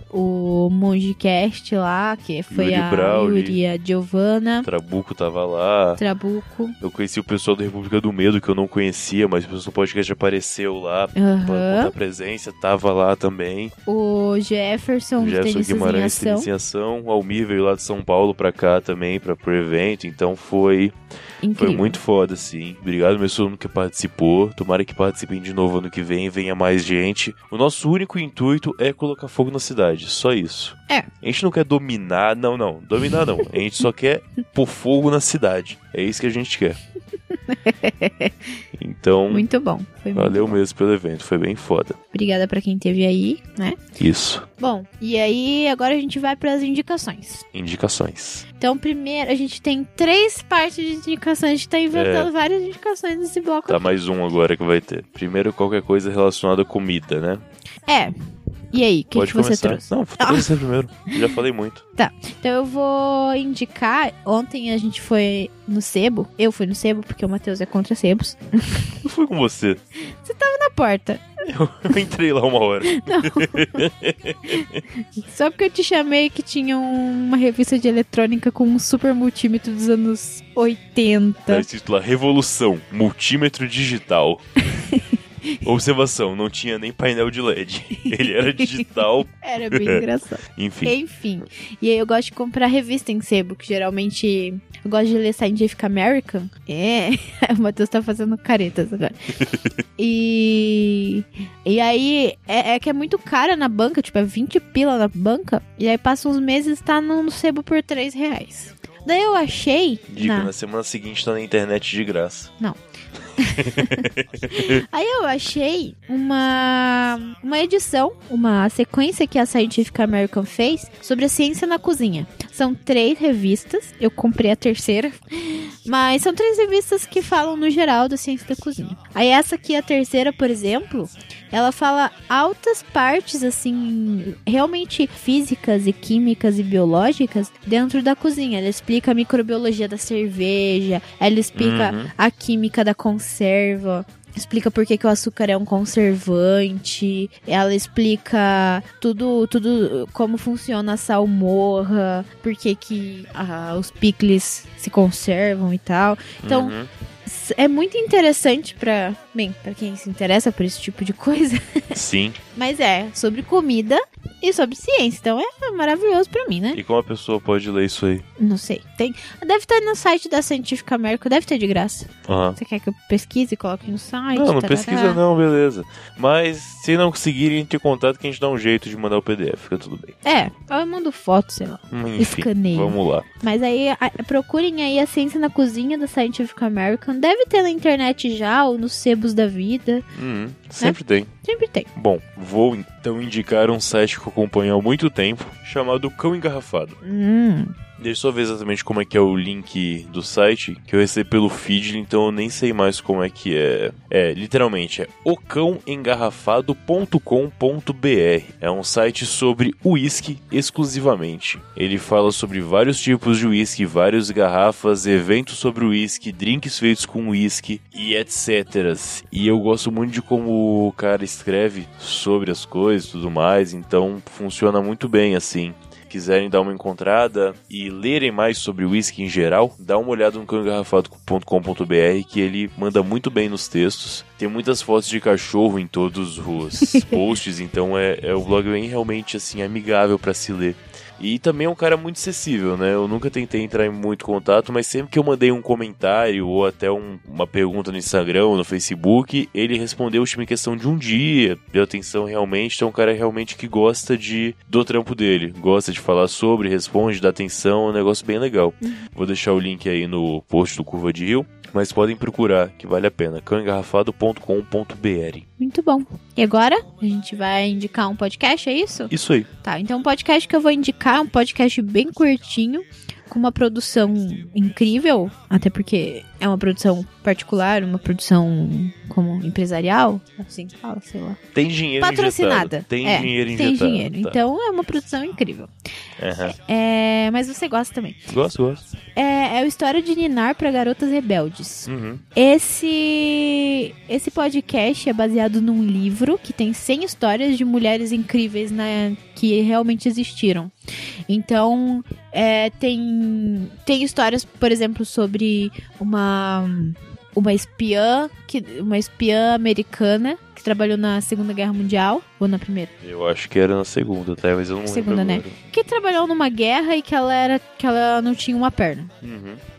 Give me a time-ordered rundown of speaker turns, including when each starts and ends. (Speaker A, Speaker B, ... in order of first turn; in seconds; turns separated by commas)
Speaker A: 0.1-4.7, Speaker B: 2.5-3.6, Speaker B: 4.6-6.0, Speaker A: 6.0-6.8, Speaker B: 6.8-13.7, Speaker A: 11.2-11.9, Speaker A: 13.9-16.5, Speaker B: 15.2-20.9, Speaker A: 21.4-22.0, Speaker B: 21.6-36.8, Speaker A: 37.3-38.5, Speaker B: 38.8-39.5, Speaker A: 39.3-40.6, Speaker B: 40.1-42.0, Speaker A: 42.1-43.8, Speaker B: 44.0-44.5, Speaker A: 44.6-47.4, Speaker B: 47.5-48.5, Speaker A: 48.6-53.9, Speaker B: 51.9-52.3, Speaker B: 53.7-57.4, Speaker A: 57.9-58.1, Speaker A: 58.7-60.5, Speaker B: 59.1-61.8, Speaker A: 62.0-68.8, Speaker B: 69.0-69.8, Speaker A: 70.2-71.2, Speaker B: 71.5-74.8, Speaker A: 73.0-73.9, Speaker A: 75.2-81.7, Speaker B: 81.5-84.4, Speaker A: 84.8-85.6, Speaker B: 85.6-90.0, Speaker A: 88.0-88.8, Speaker A: 89.4-99.2, Speaker B: 90.6-91.0, Speaker A: 100.0-110.5, Speaker B: 110.1-112.5, Speaker A: 113.4-156.8, Speaker B: 113.5-114.8, Speaker B: 141.6-142.1, Speaker B: 156.4-156.9, Speaker A: 157.3-162.0, Speaker B: 161.9-162.4, Speaker A: 162.5-166.8, Speaker B: 166.7-168.3, Speaker A: 168.4-175.2, Speaker B: 172.3-172.6, Speaker B: 174.3-180.2, Speaker A: 180.2-190.1, Speaker B: 181.9-183.3, Speaker B: 190.1-191.3, Speaker A: 190.8-191.9, Speaker B: 192.0-197.0, Speaker A: 197.0-197.7, Speaker B: 198.0-265.5, Speaker A: 265.6-269.1, Speaker B: 269.1-269.5, Speaker A: 269.6-281.4, Speaker B: 281.6-284.4, Speaker A: 282.0-285.7, Speaker B: 286.2-286.6, Speaker A: 286.5-288.3, Speaker B: 288.3-288.8, Speaker A: 289.2-300.7, Speaker B: 291.9-292.2, Speaker A: 301.3-312.9, Speaker B: 313.0-315.6, Speaker A: 314.9-319.1, Speaker B: 319.2-319.6